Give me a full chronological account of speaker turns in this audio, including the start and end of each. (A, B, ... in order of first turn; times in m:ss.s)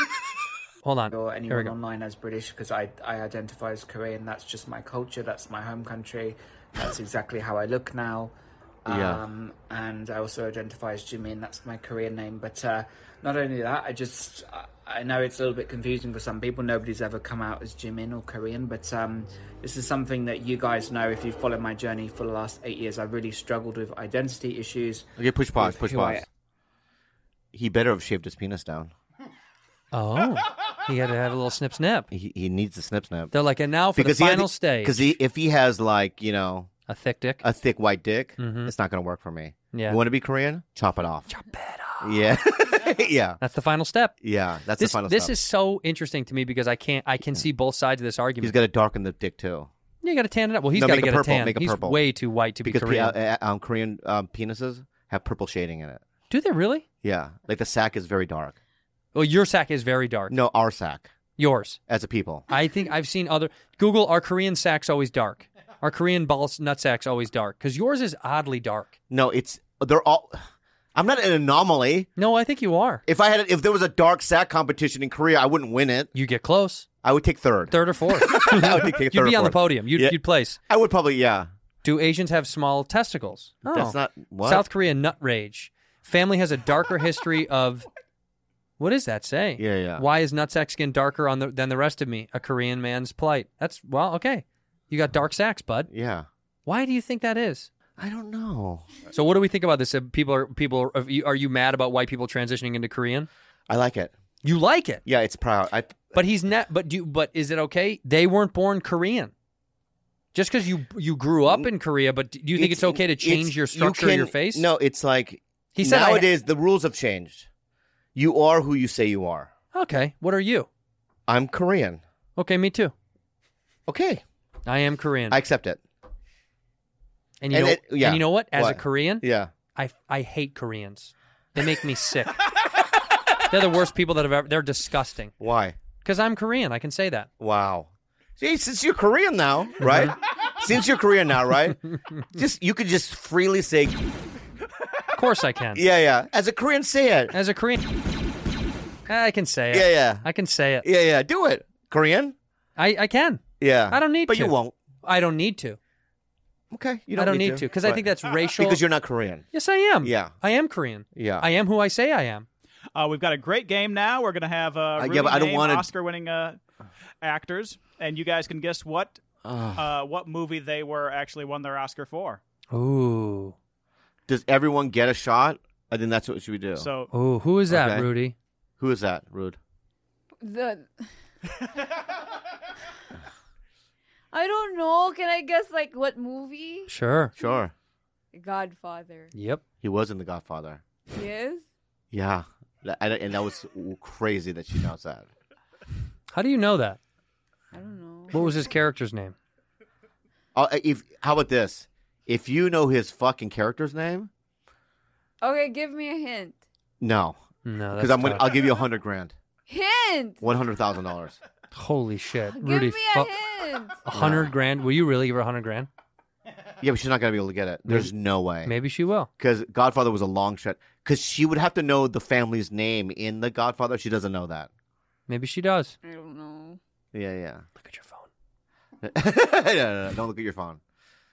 0:00.8-0:01.8 A
0:01.1-0:08.4 B
0:08.9-0:26.2 B
0:08.9-0:09.2 C
0:25.2-0:26.2 C
0:27.5-0:28.9 C
0:29.9-0:32.1 A
0:32.1-0:33.3 C
0:33.3-0:35.1 A
0:34.0-0:36.7 C
0:36.9-0:37.4 A
0:37.4-0:41.3 C
0:38.4-0:38.7 A
0:39.7-0:40.0 A
0:41.3-0:42.2 A
0:42.0-0:43.4 C
0:43.4-0:44.2 A
0:44.2-0:45.4 C
0:44.8-0:48.6 A
0:48.4-0:49.7 C
0:50.0-0:53.2 A
0:50.7-0:52.0 C
0:52.6-0:56.0 C
0:56.3-0:56.8 A
0:57.0-0:58.6 C
0:59.1-1:00.3 A
1:00.3-1:01.1 C
1:01.4-1:01.8 A
1:01.9-1:02.4 C
1:02.5-1:09.0 A
1:09.1-1:10.4 C
1:11.0-1:12.1 C
1:12.2-1:13.0 A
1:13.1-1:16.1 C
1:16.1-1:16.9 A
1:17.0-1:21.5 C
1:17.7-1:20.6 A
1:21.8-1:27.9 A
1:23.6-1:24.7 C
1:28.8-1:35.9 A
1:29.6-1:30.1 C
1:35.9-1:36.3 C
1:36.7-1:37.7 A
1:38.0-1:39.0 C
1:39.1-1:43.3 A
1:43.7-1:44.1 C
1:44.4-1:45.0 A
1:45.0-1:46.2 C
1:46.1-1:49.3 A
1:50.3-1:54.6 A
1:52.6-1:57.5 C
1:55.8-1:56.3 A
1:58.2-1:59.5 C
1:59.7-2:00.7 A
2:01.3-2:02.0 C
2:02.4-2:02.9 A
2:03.9-2:04.2 C
2:04.7-2:05.4 A
2:05.3-2:05.8 C
2:07.4-2:09.2 A
2:07.5-2:09.5 C
2:09.8-2:12.4 A
2:13.5-2:15.3 A
2:15.4-2:15.8 C
2:16.0-2:17.3 A
2:17.4-2:21.8 C
2:19.8-2:20.2 A
2:22.3-2:24.0 C
2:25.2-2:25.8 A
2:25.8-2:27.3 C
2:27.3-2:27.8 A
2:29.1-2:30.8 A
2:29.7-2:30.3 C
2:30.8-2:32.4 C
2:32.8-2:35.8 A
2:33.6-2:34.7 C
2:36.7-2:39.4 C
2:37.2-2:38.8 A
2:39.5-2:42.5 A
2:40.0-2:40.3 C
2:41.2-2:41.5 C
2:43.0-2:46.6 D
2:45.0-2:45.9 C
2:47.2-2:49.2 D
2:49.4-2:49.9 C
2:49.8-2:52.4 D
2:52.7-2:53.6 A
2:54.3-2:56.9 C
2:56.8-2:57.1 D
2:57.1-2:58.4 A
2:57.7-2:58.1 C
2:58.8-2:59.6 C
3:00.4-3:01.1 E
3:04.3-3:07.6 E
3:06.9-3:07.3 A
3:07.4-3:07.7 C
3:08.3-3:09.3 E
3:09.3-3:09.6 A
3:09.8-3:10.8 C
3:11.1-3:11.6 E
3:12.1-3:15.3 C
3:16.3-3:17.0 A
3:17.7-3:18.6 E
3:18.3-3:19.4 A
3:20.6-3:24.3 C
3:25.4-3:26.6 E
3:27.0-3:27.4 C
3:27.6-3:28.6 A
3:28.0-3:29.3 C
3:29.7-3:30.4 E
3:30.4-3:31.4 C
3:31.7-3:33.3 A
3:32.6-3:34.0 E
3:34.0-3:35.9 A
3:34.1-3:34.5 C
3:36.8-3:38.7 C
3:37.9-3:38.1 A
3:38.6-3:39.3 A
3:39.4-3:44.7 C
3:45.3-3:46.0 A
3:46.0-3:46.8 E
3:47.1-3:47.6 C
3:47.8-3:48.3 A
3:49.0-3:50.8 C